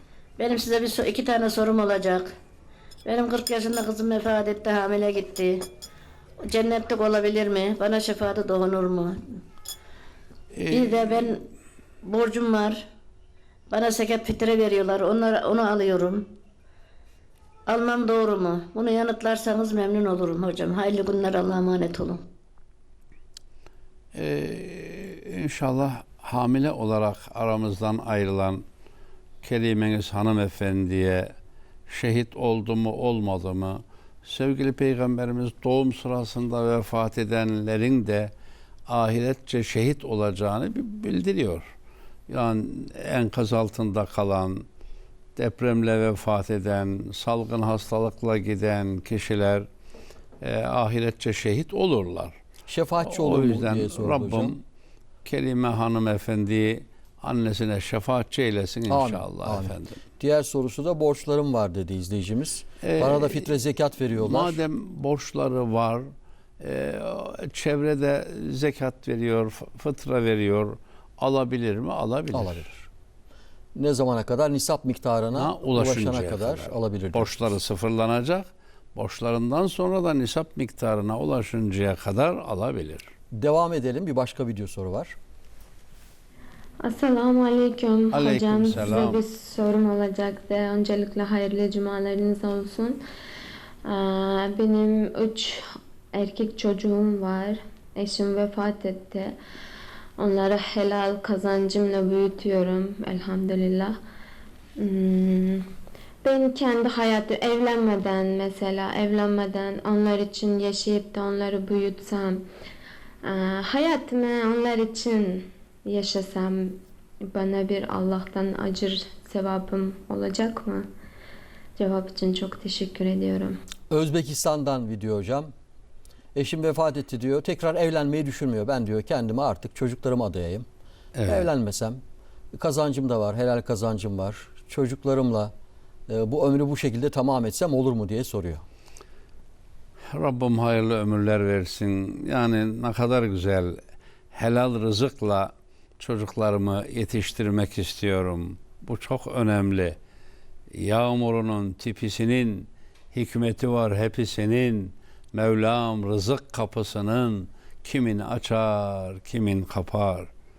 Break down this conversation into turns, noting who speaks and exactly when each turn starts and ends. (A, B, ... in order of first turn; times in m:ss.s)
0:00.4-0:02.3 A
0:03.0-0:05.6 A
0:06.4-0:09.2 A
0:10.5-0:11.2 B
0:10.7-0:11.4 A
0:12.0-0:12.8 A
0:13.7-0:16.2 A
0:17.7-0:22.2 A
0:24.1-0:28.6 B
0:29.4-0:31.3 B
0:31.9-0:38.3 B
0:38.9-0:41.7 B
0:42.3-0:44.6 B
0:45.4-0:49.7 B
0:50.4-0:52.4 B
0:52.7-0:54.6 C
0:53.0-0:54.6 B
0:55.2-1:00.0 B
0:58.9-1:04.6 C
1:02.8-1:03.5 B
1:04.1-1:06.1 B
1:06.6-1:12.8 B
1:12.3-1:12.7 C
1:13.7-1:17.5 C
1:15.4-1:23.1 B
1:23.3-1:25.1 C
1:26.8-1:33.0 D
1:28.1-1:29.2 B
1:33.8-1:39.4 D
1:40.2-1:44.0 D
1:44.8-1:45.6 D
1:46.2-1:52.4 D
1:53.2-2:00.9 D
2:01.8-2:03.6 D
2:03.9-2:05.5 C
2:06.3-2:10.6 C
2:11.2-2:11.5 B
2:11.2-2:12.0 C
2:12.6-2:15.5 C
2:16.1-2:18.6 C
2:20.1-2:23.8 B
2:24.3-2:30.0 B
2:30.7-2:40.3 B